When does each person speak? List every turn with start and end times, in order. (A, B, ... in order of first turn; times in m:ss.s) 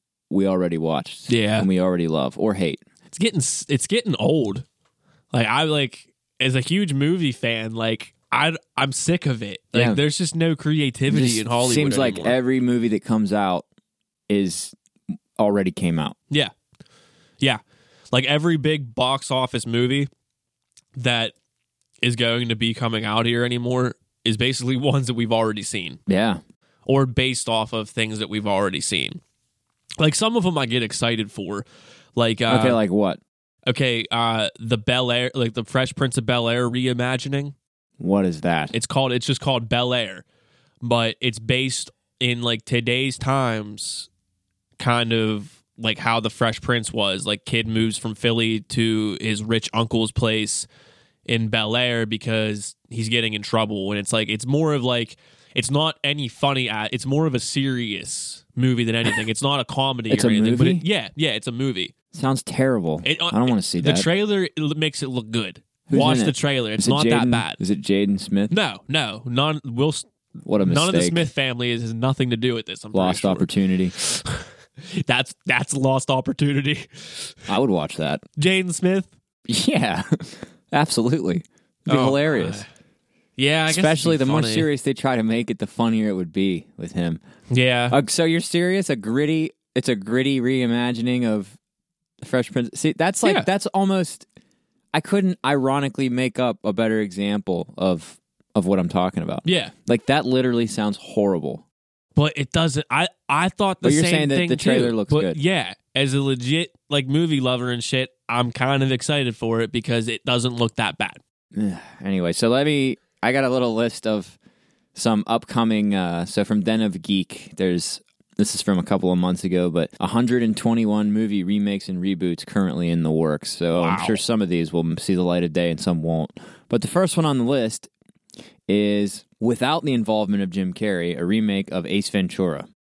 0:00.3-0:02.8 A
0:01.3-0:01.7 B
0:03.1-0:04.6 B
0:05.3-0:12.4 B
0:09.7-0:10.0 A
0:11.1-0:13.7 A
0:14.3-0:14.7 A
0:15.4-0:16.2 A
0:17.4-0:20.1 B
0:21.0-0:21.3 B
0:22.0-0:26.0 B
0:26.1-0:26.4 A
0:26.9-0:29.2 B
0:30.0-0:32.8 B
0:32.5-0:33.2 A
0:33.7-0:37.6 B
0:38.0-0:38.7 A
0:38.7-0:40.2 B
0:40.8-0:44.1 B
0:44.8-0:50.7 B
0:51.3-1:01.9 B
1:00.1-1:00.8 A
1:02.1-1:04.1 A
1:03.0-1:07.6 B
1:05.9-1:08.6 A
1:08.5-1:10.1 B
1:10.5-1:11.3 A
1:10.6-1:17.5 B
1:12.9-1:14.0 A
1:17.5-1:18.2 A
1:18.4-1:19.1 B
1:19.5-1:22.6 A
1:21.9-1:22.7 B
1:23.4-1:24.7 B
1:23.7-1:27.2 A
1:27.5-1:28.0 B
1:27.9-1:31.6 A
1:32.2-1:34.3 A
1:33.2-1:33.5 B
1:34.9-1:41.6 A
1:39.4-1:39.7 B
1:42.2-1:51.2 B
1:43.8-1:45.4 A
1:51.6-1:54.4 A
1:55.0-2:07.9 A
2:03.8-2:04.2 B
2:08.7-2:12.7 A